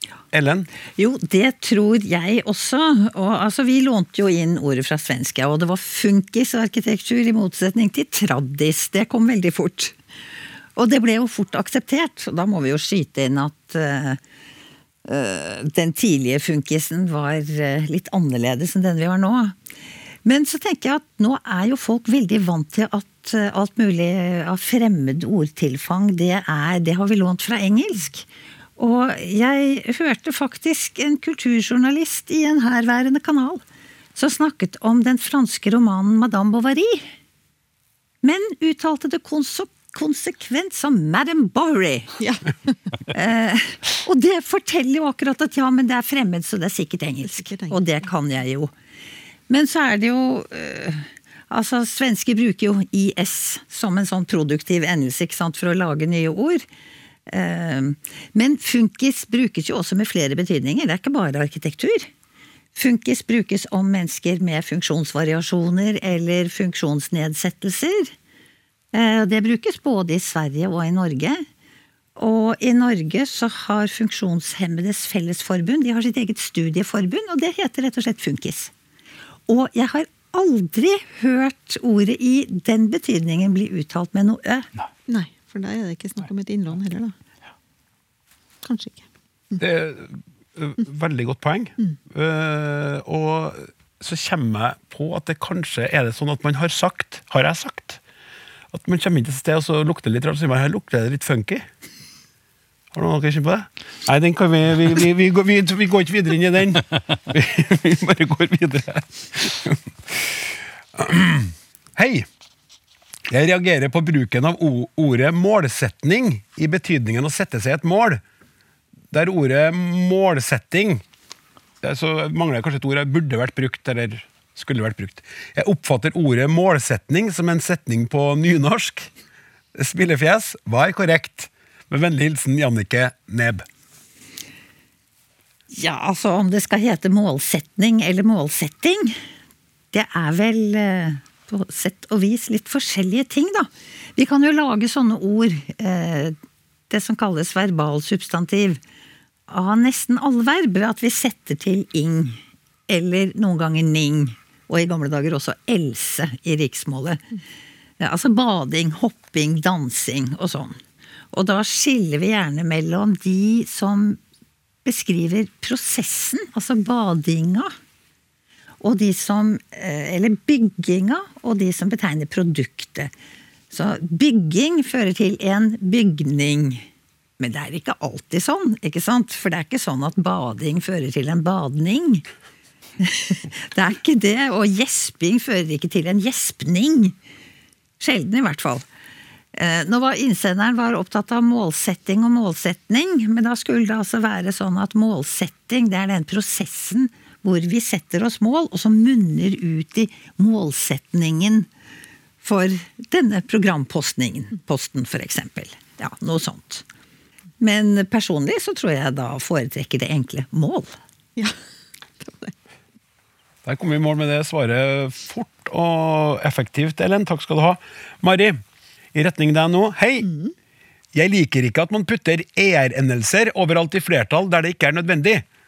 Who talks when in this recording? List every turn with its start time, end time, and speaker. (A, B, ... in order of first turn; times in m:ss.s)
0:00.3-0:00.7 A
0:01.0-0:10.0 B
0:10.8-0:14.2 B
0:15.1-0:19.6 B
0:20.2-0:33.6 B
0:34.2-0:37.1 B
0:38.2-0:42.1 B
0:42.2-0:42.5 C
0:43.1-0:48.7 B
0:47.4-0:47.8 C
0:49.5-0:56.6 B
0:57.3-1:02.1 B
1:02.7-1:08.1 B
1:08.9-1:11.4 B
1:12.2-1:18.7 B
1:19.5-1:24.7 B
1:25.1-1:27.1 C
1:28.6-1:29.6 C
1:29.6-1:38.0 A
1:38.7-1:41.7 A
1:42.9-1:52.3 A
1:53.3-1:58.2 A
1:59.1-2:01.0 A
2:01.8-2:09.1 A
2:09.8-2:13.6 A
2:15.7-2:19.2 B
2:19.9-2:26.4 B
2:26.9-2:28.8 B
2:29.5-2:37.2 B
2:38.0-2:40.8 B
2:41.3-2:44.2 B
2:44.8-2:47.7 B
2:48.8-2:53.1 B
2:53.7-2:56.9 B
2:57.4-3:02.2 B
3:03.0-3:07.2 B
3:08.0-3:08.8 B
3:09.6-3:21.7 B
3:22.4-3:26.8 B
3:27.6-3:30.9 B
3:32.2-3:32.5 C
3:33.6-3:38.6 A
3:39.1-3:40.3 A
3:40.2-3:40.5 C
3:41.1-3:45.4 A